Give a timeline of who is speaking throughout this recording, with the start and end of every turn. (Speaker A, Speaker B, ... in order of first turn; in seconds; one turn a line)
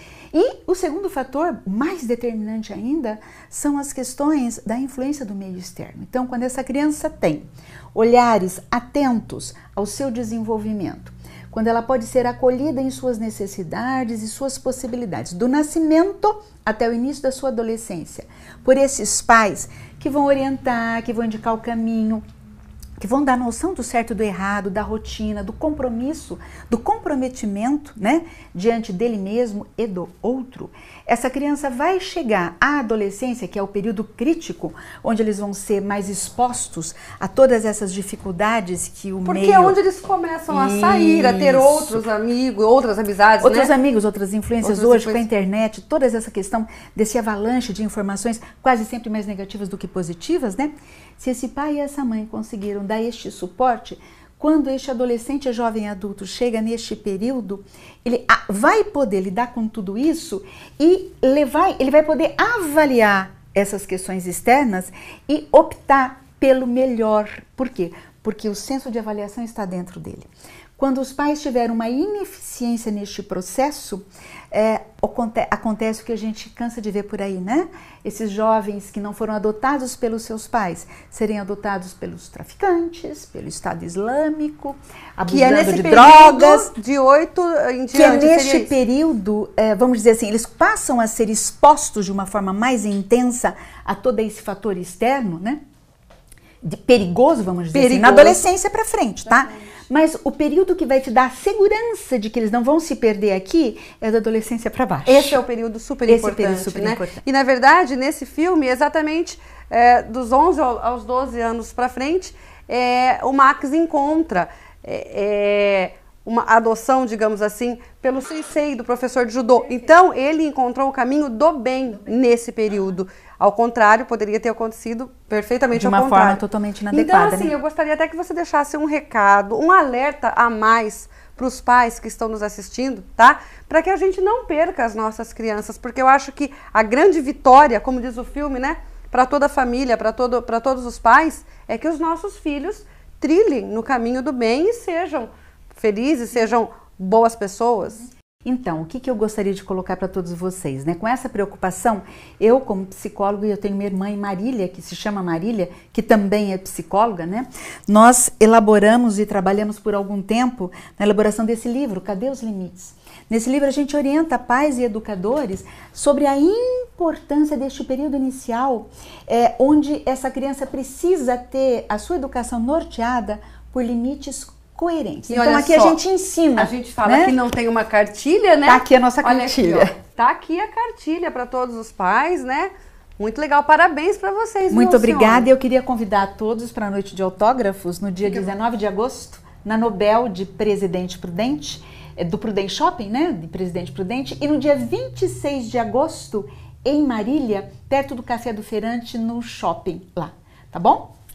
Speaker A: 0.3-22.2
Speaker A: 23.0-39.8
Speaker B: 39.2-43.7
Speaker A: 40.5-42.1
Speaker A: 43.4-86.7
Speaker B: 44.6-45.2
Speaker B: 85.3-88.7
Speaker A: 87.9-95.6
Speaker A: 96.6-105.4
Speaker B: 97.7-98.4
Speaker B: 105.1-148.1
Speaker A: 106.1-107.2
Speaker A: 125.7-127.5
Speaker A: 148.4-177.4
Speaker B: 175.3-176.0
Speaker B: 176.6-185.5
Speaker A: 178.7-179.9
Speaker A: 184.7-201.1